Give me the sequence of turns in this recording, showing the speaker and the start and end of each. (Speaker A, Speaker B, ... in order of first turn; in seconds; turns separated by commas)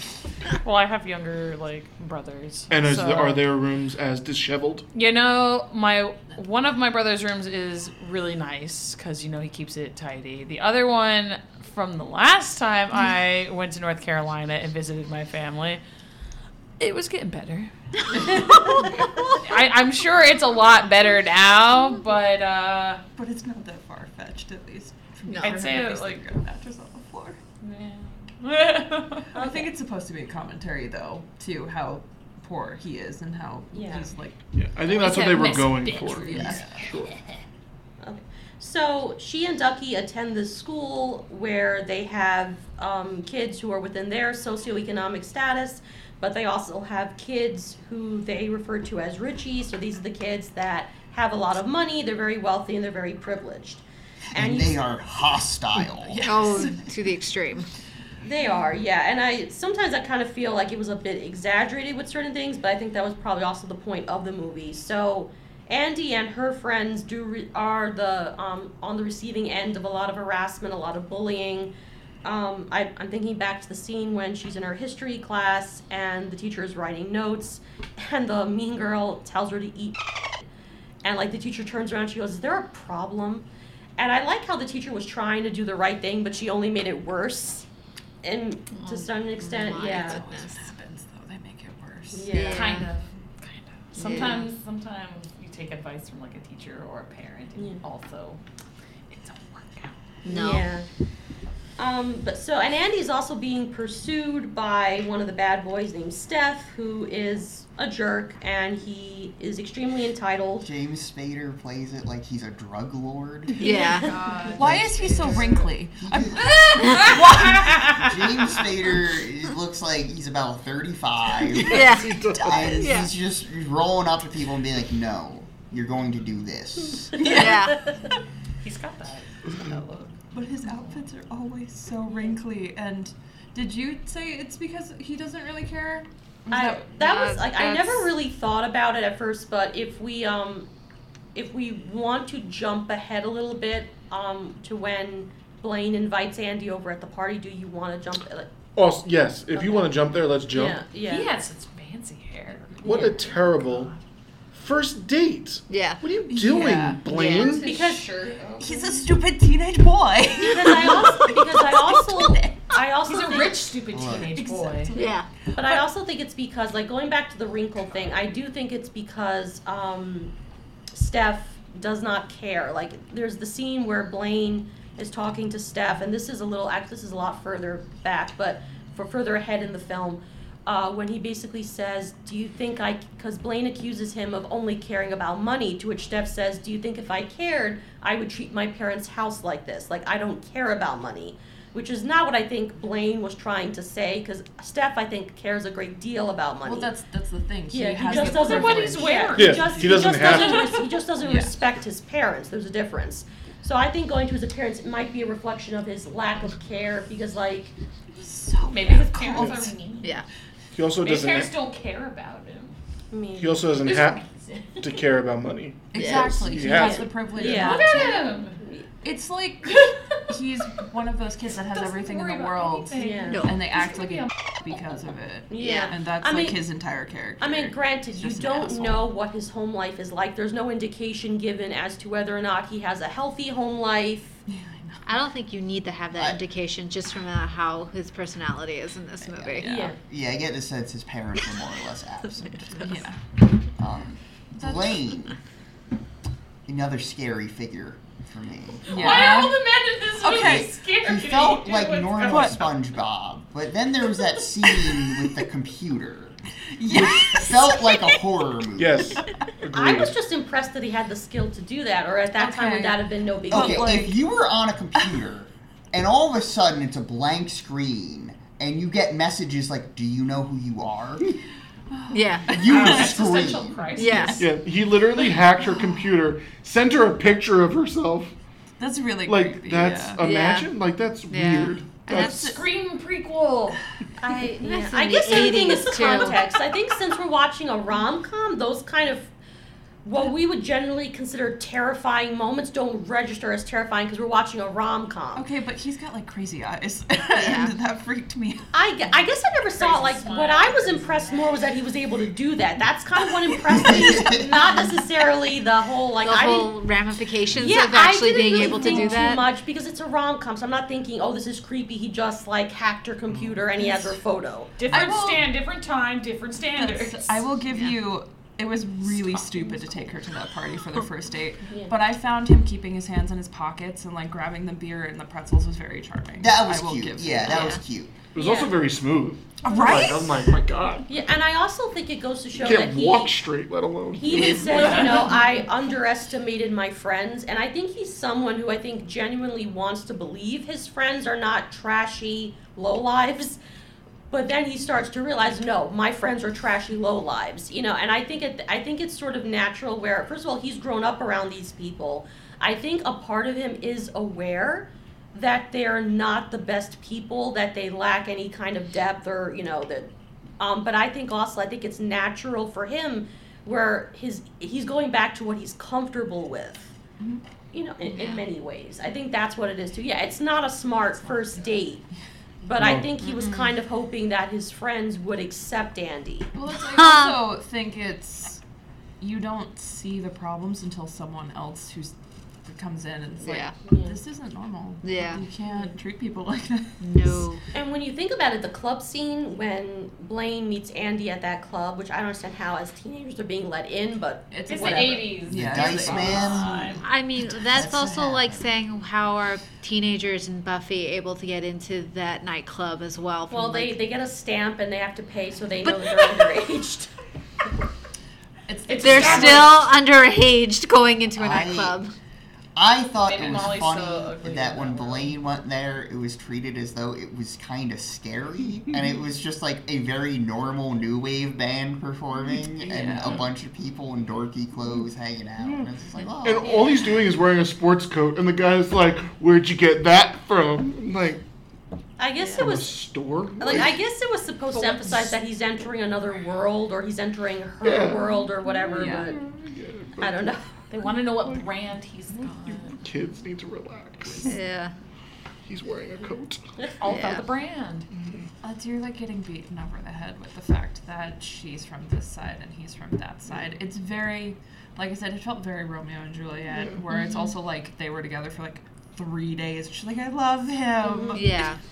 Speaker A: 0.6-3.4, Speaker B: 2.7-4.9, Speaker A: 4.9-15.8, Speaker A: 16.8-23.0, Speaker C: 23.1-27.4, Speaker D: 25.3-25.7, Speaker A: 25.4-26.2, Speaker A: 27.6-29.3, Speaker E: 29.3-29.7, Speaker C: 29.3-34.5, Speaker E: 33.7-34.1, Speaker B: 34.6-37.2, Speaker A: 34.9-36.6, Speaker C: 35.0-35.4, Speaker C: 36.1-36.8, Speaker E: 38.0-53.8, Speaker F: 54.3-56.4, Speaker E: 54.3-54.9, Speaker C: 55.8-57.1, Speaker D: 56.2-57.7, Speaker E: 58.2-71.7, Speaker E: 72.2-80.1, Speaker E: 81.0-83.5, Speaker E: 84.0-87.7, Speaker E: 88.2-90.2, Speaker D: 88.7-90.6, Speaker C: 89.6-92.3, Speaker E: 92.1-92.8, Speaker D: 92.3-92.9, Speaker A: 92.4-98.4, Speaker D: 94.0-94.5, Speaker A: 99.1-99.9, Speaker D: 100.2-100.7, Speaker E: 100.3-100.9, Speaker E: 101.8-110.7, Speaker F: 110.6-113.7, Speaker D: 113.6-114.2, Speaker C: 113.9-118.2, Speaker A: 114.0-114.5, Speaker E: 114.1-114.5, Speaker F: 114.5-127.5, Speaker A: 116.8-117.1, Speaker C: 121.6-123.0, Speaker D: 121.7-122.3, Speaker B: 121.7-122.8, Speaker D: 122.8-123.1, Speaker C: 127.2-127.8, Speaker D: 127.2-127.8, Speaker A: 128.6-131.0, Speaker B: 129.5-129.8, Speaker C: 130.3-136.9, Speaker E: 136.5-140.7, Speaker D: 137.0-138.2, Speaker E: 141.3-148.5, Speaker B: 148.8-150.8, Speaker E: 149.5-149.9, Speaker E: 150.5-151.3, Speaker A: 151.1-154.0, Speaker B: 152.8-153.9, Speaker B: 154.5-157.7, Speaker D: 155.7-156.0, Speaker C: 156.3-157.1, Speaker D: 157.1-157.6, Speaker A: 157.4-159.1, Speaker E: 157.6-158.3, Speaker C: 158.6-162.8, Speaker E: 160.4-163.7, Speaker A: 163.1-165.0, Speaker F: 163.9-164.4, Speaker C: 164.4-165.8, Speaker D: 164.9-165.3, Speaker E: 165.6-170.3, Speaker E: 170.9-196.9, Speaker C: 196.6-200.5, Speaker E: 197.7-207.7, Speaker A: 198.0-200.8, Speaker B: 199.3-200.7, Speaker C: 201.2-201.5, Speaker C: 208.2-209.7, Speaker A: 208.7-210.2, Speaker B: 209.4-209.7, Speaker B: 210.7-211.5, Speaker A: 211.0-212.8, Speaker E: 213.1-213.8, Speaker B: 213.4-214.2, Speaker A: 213.8-214.9, Speaker B: 214.8-217.2, Speaker C: 215.9-218.3, Speaker D: 215.9-216.6, Speaker E: 216.7-218.9, Speaker A: 217.3-218.6, Speaker C: 219.0-229.1, Speaker A: 219.7-220.1, Speaker A: 221.7-224.3, Speaker E: 223.0-223.5, Speaker D: 223.3-223.8, Speaker E: 225.5-226.6, Speaker D: 225.6-226.0, Speaker E: 227.4-234.4, Speaker C: 234.5-235.0, Speaker D: 235.1-239.7, Speaker F: 236.1-236.4, Speaker C: 239.6-239.9, Speaker E: 239.6-240.0, Speaker F: 240.1-242.9, Speaker C: 242.8-243.2, Speaker F: 243.8-245.4, Speaker C: 244.6-244.9, Speaker F: 246.7-249.3, Speaker C: 248.9-249.6, Speaker A: 248.9-252.8, Speaker C: 250.2-250.7, Speaker F: 250.3-259.2, Speaker C: 252.2-252.6, Speaker C: 256.8-258.1, Speaker B: 258.8-260.1, Speaker E: 259.7-264.0, Speaker C: 262.4-264.1, Speaker F: 263.5-271.4, Speaker C: 271.9-273.3, Speaker D: 272.1-273.0, Speaker F: 272.5-273.9, Speaker A: 272.6-274.4, Speaker D: 274.0-274.5, Speaker C: 274.0-274.4, Speaker B: 274.4-278.3, Speaker C: 275.6-276.1, Speaker C: 278.8-280.2, Speaker B: 279.2-282.4, Speaker D: 280.2-280.7, Speaker D: 281.3-282.6, Speaker C: 282.1-282.6, Speaker A: 282.1-283.8, Speaker E: 284.2-289.3, Speaker D: 284.6-286.4, Speaker E: 290.0-295.5, Speaker C: 295.4-298.7, Speaker D: 297.4-297.7, Speaker E: 298.7-306.7, Speaker A: 299.8-301.6, Speaker F: 303.7-304.5, Speaker C: 304.6-304.9, Speaker D: 306.2-309.4, Speaker E: 307.6-315.1, Speaker C: 308.6-309.3, Speaker A: 314.8-317.4, Speaker C: 314.9-315.5, Speaker C: 316.8-327.7, Speaker E: 321.7-321.9, Speaker F: 326.4-328.1, Speaker D: 327.5-327.8, Speaker B: 328.3-331.1, Speaker E: 328.4-328.8, Speaker C: 329.6-330.5, Speaker E: 331.1-333.4, Speaker B: 332.6-335.2, Speaker E: 334.1-343.6, Speaker C: 334.6-335.4, Speaker A: 334.8-335.1, Speaker E: 344.3-366.9, Speaker E: 367.7-372.0, Speaker D: 368.1-368.4, Speaker E: 372.6-376.5, Speaker B: 372.8-373.1, Speaker D: 373.2-373.7, Speaker C: 376.5-378.6, Speaker D: 376.9-377.4, Speaker C: 379.2-387.5, Speaker D: 383.4-383.8, Speaker E: 383.8-384.2, Speaker D: 385.0-385.4, Speaker D: 387.0-387.6, Speaker E: 387.7-395.3, Speaker C: 394.5-397.0, Speaker A: 394.7-397.0, Speaker F: 395.5-397.0, Speaker D: 397.0-404.0, Speaker F: 397.7-398.6, Speaker E: 403.5-407.1, Speaker D: 405.9-406.4, Speaker C: 408.7-409.8, Speaker A: 408.9-409.8, Speaker D: 409.0-412.1, Speaker F: 411.4-412.0, Speaker F: 412.8-426.8, Speaker A: 413.2-415.3, Speaker C: 422.8-423.4, Speaker B: 425.6-425.9, Speaker B: 426.4-431.4, Speaker E: 432.2-439.4, Speaker B: 432.6-434.0, Speaker B: 437.8-440.6, Speaker C: 438.9-439.3, Speaker E: 440.2-440.6, Speaker A: 440.9-443.0, Speaker B: 442.6-444.6, Speaker D: 444.4-444.9, Speaker B: 445.6-446.7, Speaker A: 447.0-448.1, Speaker D: 447.0-447.4, Speaker B: 448.1-448.5, Speaker C: 448.6-461.6, Speaker D: 457.1-457.5, Speaker E: 461.1-461.4, Speaker D: 461.3-461.8